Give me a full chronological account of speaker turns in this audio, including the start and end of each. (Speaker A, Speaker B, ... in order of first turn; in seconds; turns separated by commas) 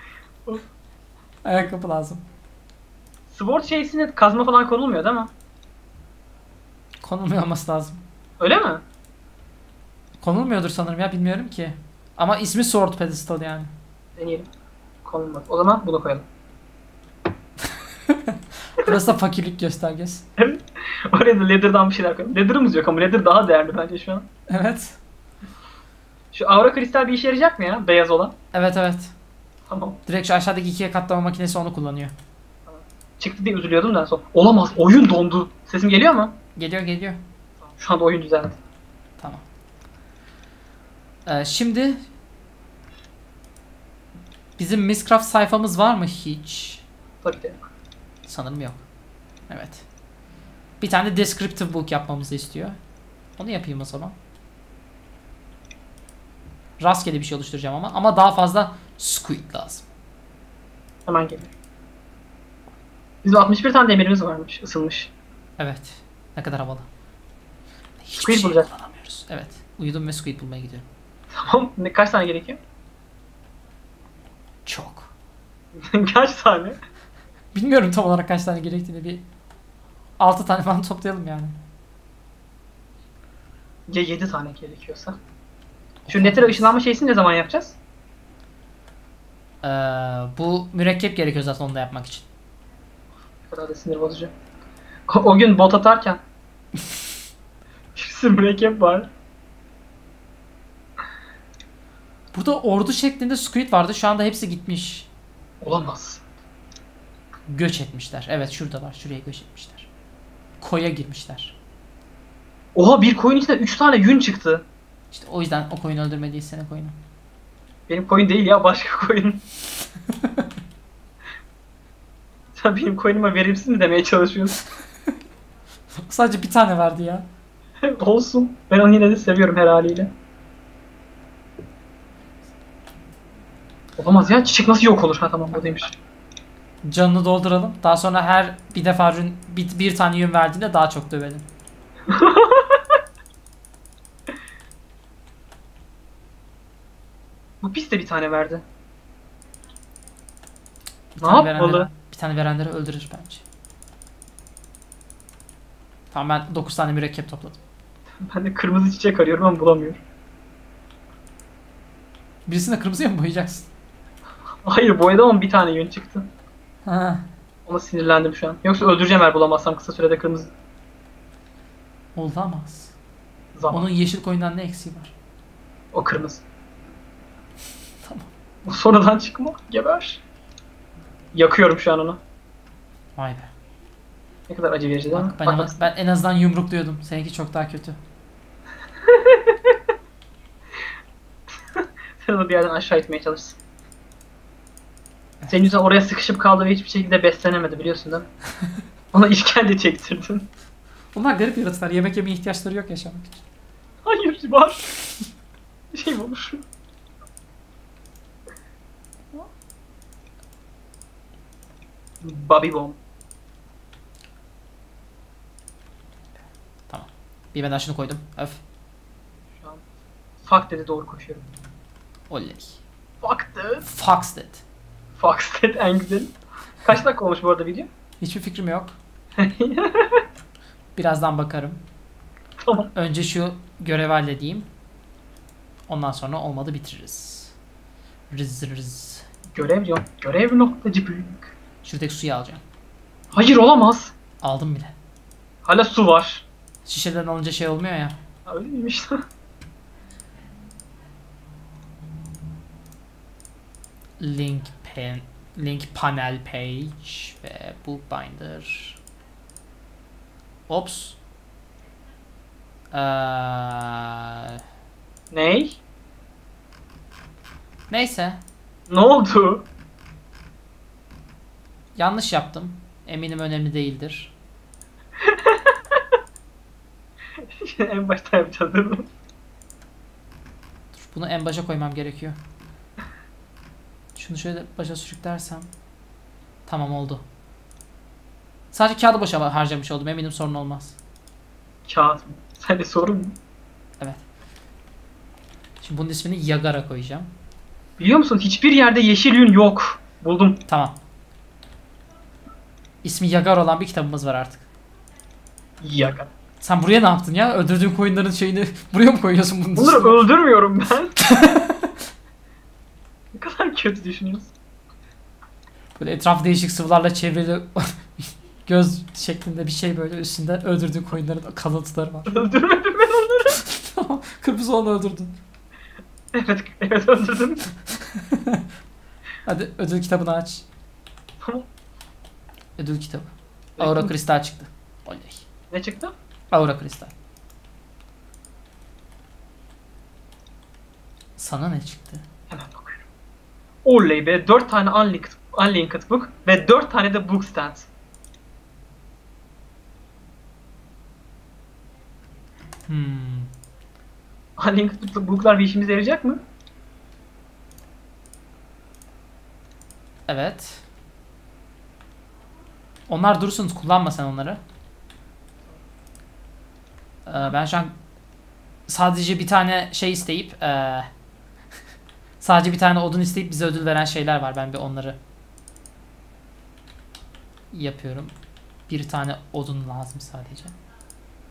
Speaker A: 1.4-2.2, Speaker B: 3.3-5.3, Speaker A: 7.0-8.0, Speaker B: 8.4-8.8, Speaker A: 10.2-13.7, Speaker B: 14.2-14.5, Speaker B: 15.0-16.2, Speaker A: 18.1-20.2, Speaker B: 20.4-24.3, Speaker A: 24.5-25.0, Speaker B: 26.3-28.3, Speaker A: 28.5-29.1, Speaker B: 29.7-30.0, Speaker A: 30.1-32.1, Speaker B: 32.6-36.4, Speaker A: 36.5-37.2, Speaker B: 37.6-38.6, Speaker A: 39.2-39.4, Speaker A: 41.2-42.0, Speaker A: 44.6-46.8, Speaker B: 47.2-47.7, Speaker A: 48.2-48.8, Speaker A: 49.5-49.8, Speaker A: 50.8-52.8, Speaker A: 53.4-54.1, Speaker A: 56.8-59.9, Speaker B: 61.0-61.5, Speaker B: 63.2-65.1, Speaker A: 65.6-66.9, Speaker A: 68.0-70.8, Speaker B: 68.2-68.7, Speaker B: 71.3-72.6, Speaker A: 74.7-75.1, Speaker B: 75.7-76.8, Speaker A: 77.5-79.2, Speaker A: 80.2-81.5, Speaker B: 83.9-85.2, Speaker A: 86.0-86.7, Speaker B: 86.1-87.8, Speaker A: 89.6-92.3, Speaker B: 93.5-94.3, Speaker B: 95.1-96.2, Speaker B: 97.9-99.1, Speaker A: 102.3-105.1, Speaker B: 105.6-106.2, Speaker A: 107.5-109.9, Speaker A: 110.6-111.5, Speaker B: 112.7-114.6, Speaker A: 115.1-117.0, Speaker B: 117.9-119.4, Speaker B: 122.5-124.6, Speaker A: 126.0-127.2, Speaker B: 127.8-130.1, Speaker B: 134.0-136.0, Speaker A: 136.8-141.4, Speaker B: 142.1-142.8, Speaker B: 147.6-148.6, Speaker A: 151.2-153.4, Speaker B: 151.2-151.9, Speaker A: 156.1-157.6, Speaker B: 158.2-160.0, Speaker A: 162.5-163.7, Speaker B: 164.6-166.3, Speaker A: 166.8-167.2, Speaker B: 167.7-170.5, Speaker A: 172.1-172.9, Speaker B: 173.5-173.9, Speaker A: 173.7-175.1, Speaker B: 175.9-176.4, Speaker B: 178.6-180.2, Speaker B: 181.3-182.2, Speaker A: 183.2-183.5, Speaker B: 184.5-185.7, Speaker A: 185.1-188.0, Speaker B: 189.0-189.8, Speaker B: 191.7-193.6, Speaker B: 195.5-198.2, Speaker B: 199.1-200.5, Speaker A: 201.1-203.4, Speaker B: 204.0-204.8, Speaker B: 205.9-206.6, Speaker B: 212.2-213.0, Speaker A: 216.9-218.6, Speaker B: 219.6-219.8, Speaker B: 220.4-221.4, Speaker A: 222.3-222.8, Speaker B: 223.2-223.8, Speaker A: 223.8-224.6, Speaker B: 225.2-227.9, Speaker A: 228.2-228.9, Speaker B: 229.4-230.2, Speaker A: 230.9-231.8, Speaker B: 232.6-232.9, Speaker A: 232.9-234.7, Speaker A: 235.9-237.5, Speaker A: 238.3-239.2, Speaker B: 239.5-241.5, Speaker A: 241.8-242.6, Speaker B: 243.3-244.1, Speaker A: 244.4-244.9, Speaker B: 245.6-246.4, Speaker A: 246.8-248.1, Speaker B: 248.4-249.2, Speaker A: 254.2-259.0, Speaker A: 260.7-261.2, Speaker A: 262.9-264.6, Speaker B: 265.3-265.8, Speaker A: 267.9-268.4, Speaker B: 268.9-269.6, Speaker A: 271.9-274.3, Speaker B: 275.2-276.0, Speaker B: 277.4-279.1, Speaker A: 280.9-282.4, Speaker A: 284.1-285.7, Speaker A: 286.7-287.2, Speaker A: 288.7-291.0, Speaker B: 291.9-293.4, Speaker A: 295.8-297.3, Speaker B: 298.0-300.6, Speaker A: 300.7-301.0, Speaker A: 303.0-304.6, Speaker B: 305.8-306.3, Speaker A: 306.6-310.3, Speaker B: 309.8-311.1, Speaker A: 311.2-311.9, Speaker B: 313.3-314.5, Speaker A: 316.0-322.5, Speaker B: 322.3-323.6, Speaker A: 323.5-325.4, Speaker B: 326.3-327.6, Speaker A: 328.0-328.6, Speaker A: 329.4-330.6, Speaker B: 331.4-331.7, Speaker A: 332.8-335.4, Speaker B: 333.8-334.1, Speaker B: 335.7-336.1, Speaker A: 336.5-337.1, Speaker A: 341.4-342.2, Speaker B: 342.5-343.0, Speaker B: 343.8-347.9, Speaker A: 352.9-353.5, Speaker B: 354.6-356.4, Speaker A: 360.3-360.8, Speaker A: 363.1-364.6, Speaker A: 367.2-367.9, Speaker A: 368.9-371.1, Speaker A: 372.4-375.2, Speaker A: 377.7-378.3, Speaker A: 378.9-380.7